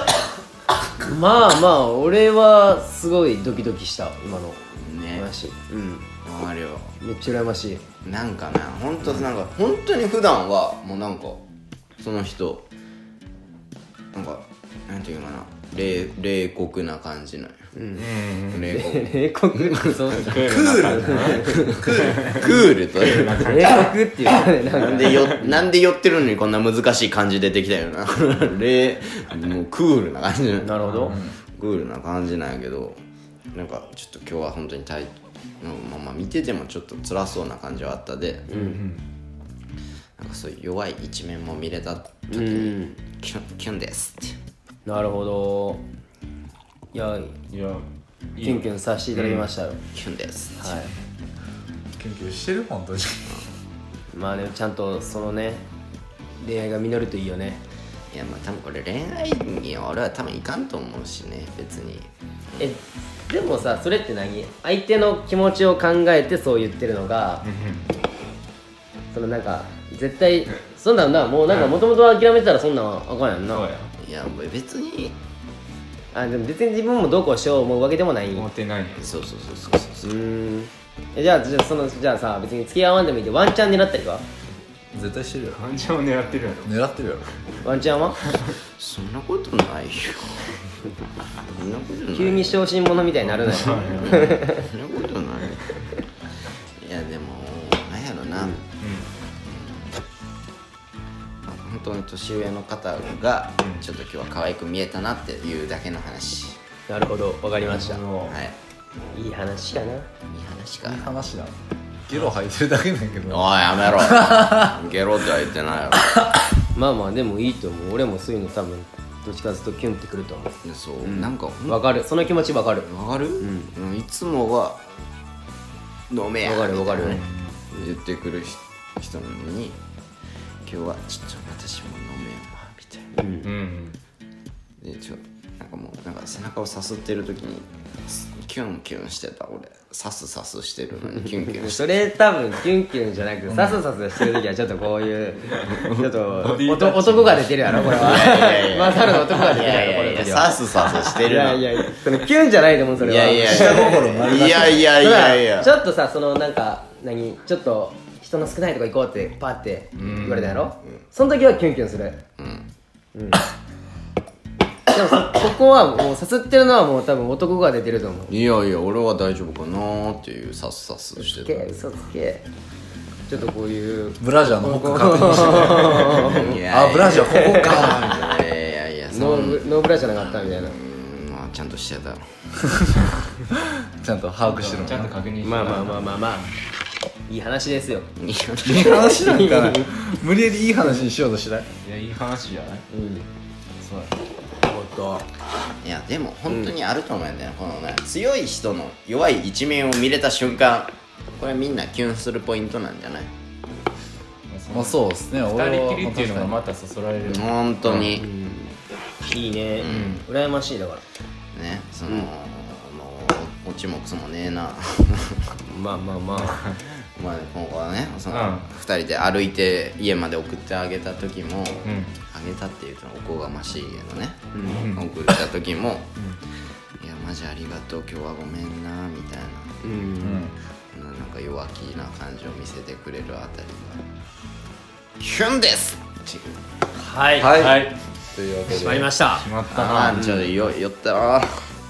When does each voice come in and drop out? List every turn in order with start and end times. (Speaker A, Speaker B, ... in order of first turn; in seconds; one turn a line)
Speaker A: 1.0-6.0
Speaker B: 4.7-5.3
Speaker B: 6.2-6.9
Speaker A: 7.0-7.8
Speaker B: 8.0-11.4
Speaker B: 12.0-12.7
Speaker B: 14.1-17.6
Speaker A: 17.7-18.1
Speaker C: 18.0-18.6
Speaker B: 18.5-20.0
Speaker A: 18.7-21.8
Speaker C: 20.2-23.8
Speaker D: 20.5-21.3
Speaker B: 21.4-23.9
Speaker A: 23.4-25.6
Speaker B: 24.7-33.0
Speaker A: 30.6-31.2
Speaker D: 31.1-31.3
Speaker B: 33.5-38.5
Speaker A: 38.5-38.8
Speaker C: 38.5-39.0
Speaker B: 40.2-44.4
Speaker A: 42.3-43.0
Speaker A: 44.9-45.8
Speaker A: 46.9-47.3
Speaker C: 47.5-49.5
Speaker A: 48.4-49.8
Speaker B: 49.9-50.8
Speaker A: 50.6-50.9
Speaker D: 52.0-53.4
Speaker A: 54.1-55.6
Speaker A: 56.4-57.6
Speaker B: 58.1-62.6
Speaker A: 62.6-67.5
Speaker C: 67.4-67.9
Speaker A: 69.1-73.7
Speaker C: 73.5-73.9
Speaker B: 74.0-75.2
Speaker A: 76.1-78.5
Speaker C: 78.3-79.0
Speaker B: 79.0-80.1
Speaker A: 80.0-84.2
Speaker D: 84.9-85.6
Speaker C: 85.5-86.7
Speaker D: 86.6-87.3
Speaker A: 87.6-88.2
Speaker C: 88.2-88.5
Speaker B: 88.8-90.6
Speaker B: 91.4-92.6
Speaker A: 92.1-94.7
Speaker C: 93.2-94.3
Speaker B: 94.0-95.8
Speaker B: 96.8-98.6
Speaker C: 98.8-99.1
Speaker B: 99.5-99.9
Speaker B: 101.5-106.6
Speaker A: 106.9-108.0
Speaker C: 107.6-108.4
Speaker B: 108.2-108.6
Speaker A: 109.1-110.1
Speaker B: 110.3-111.2
Speaker D: 110.8-114.8
Speaker B: 113.3-116.3
Speaker A: 116.7-122.9
Speaker B: 120.6-121.9
Speaker B: 122.7-124.9
Speaker A: 123.4-123.7
Speaker B: 126.1-127.2
Speaker A: 126.4-127.2
Speaker C: 127.0-127.6
Speaker B: 127.7-129.8
Speaker B: 130.6-133.1
Speaker A: 133.2-133.5
Speaker C: 133.4-134.0
Speaker B: 134.8-142.1
Speaker A: 141.5-162.2
Speaker B: 145.7-146.0
Speaker C: 146.4-147.9
Speaker B: 147.9-151.8
Speaker B: 153.0-155.7
Speaker D: 153.4-154.9
Speaker C: 159.9-160.6
Speaker B: 160.0-160.3
Speaker B: 162.4-162.7
Speaker A: 163.1-163.4
Speaker A: 164.9-168.3
Speaker B: 168.3-171.7
Speaker A: 171.2-172.4
Speaker A: 173.3-176.6
Speaker D: 174.2-178.1
Speaker B: 175.6-179.7
Speaker A: 177.1-177.7
Speaker A: 179.1-180.8
Speaker B: 180.5-182.7
Speaker D: 183.9-185.1
Speaker C: 184.4-186.2
Speaker A: 185.4-186.5
Speaker A: 187.3-188.1
Speaker B: 188.2-189.3
Speaker D: 188.6-191.7
Speaker A: 189.1-189.9
Speaker C: 191.8-192.8
Speaker A: 192.9-193.3
Speaker C: 193.8-194.2
Speaker A: 194.6-195.2
Speaker B: 195.8-203.3
Speaker C: 204.5-208.1
Speaker D: 204.7-206.6
Speaker B: 207.2-208.3
Speaker A: 208.1-211.0
Speaker B: 209.8-210.2
Speaker C: 209.8-210.2
Speaker B: 211.5-215.6
Speaker A: 215.6-216.6
Speaker C: 216.3-216.8
Speaker B: 217.0-226.1
Speaker C: 218.3-218.7
Speaker C: 221.8-222.1
Speaker A: 224.5-224.9
Speaker C: 224.7-225.1
Speaker B: 227.0-229.8
Speaker A: 229.8-230.5
Speaker D: 230.2-230.5
Speaker B: 230.9-234.0
Speaker B: 235.2-236.5
Speaker A: 237.0-237.6
Speaker D: 237.4-239.1
Speaker C: 237.5-238.0
Speaker A: 238.7-239.5
Speaker C: 239.3-240.2
Speaker B: 239.7-241.5
Speaker A: 240.1-240.5